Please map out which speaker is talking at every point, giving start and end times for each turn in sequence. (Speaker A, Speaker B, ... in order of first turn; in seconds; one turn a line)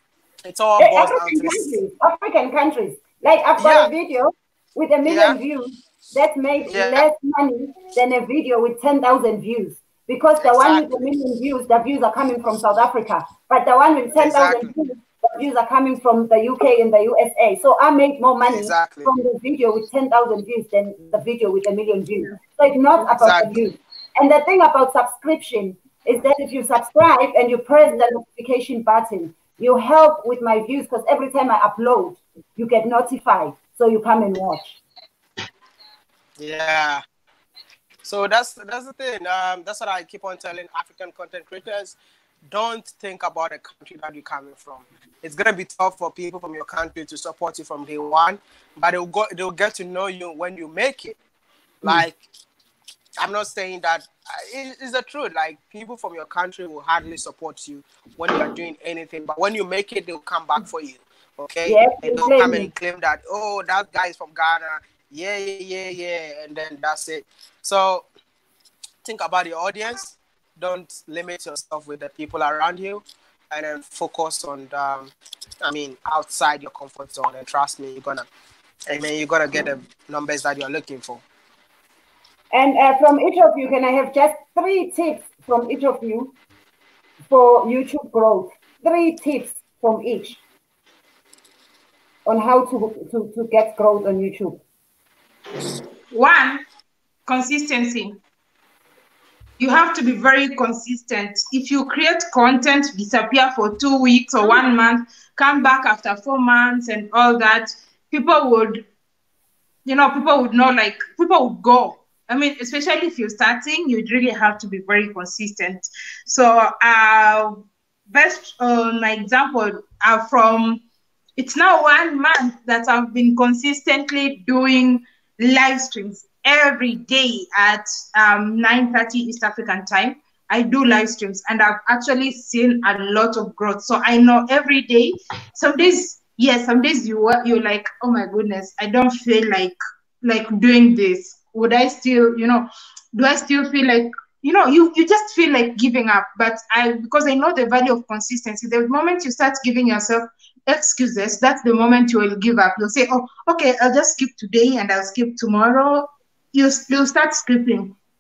Speaker A: 0.4-1.8
Speaker B: 0.8-34.8
Speaker A: 3.6-3.9
Speaker A: 5.1-5.4
Speaker A: 6.7-7.0
Speaker A: 10.4-11.1
Speaker A: 14.2-14.7
Speaker A: 18.5-19.1
Speaker A: 23.2-23.6
Speaker A: 36.4-37.0
Speaker A: 38.0-42.0
Speaker A: 42.5-51.2
Speaker A: 51.8-52.2
Speaker A: 53.2-68.1
Speaker B: 61.7-62.7
Speaker A: 69.0-75.1
Speaker A: 75.6-78.3
Speaker A: 78.9-81.2
Speaker B: 82.5-86.3
Speaker B: 87.3-90.4
Speaker B: 92.3-94.6
Speaker C: 96.1-96.6
Speaker C: 97.3-98.2
Speaker C: 99.6-108.8
Speaker C: 109.9-120.8
Speaker C: 121.4-157.9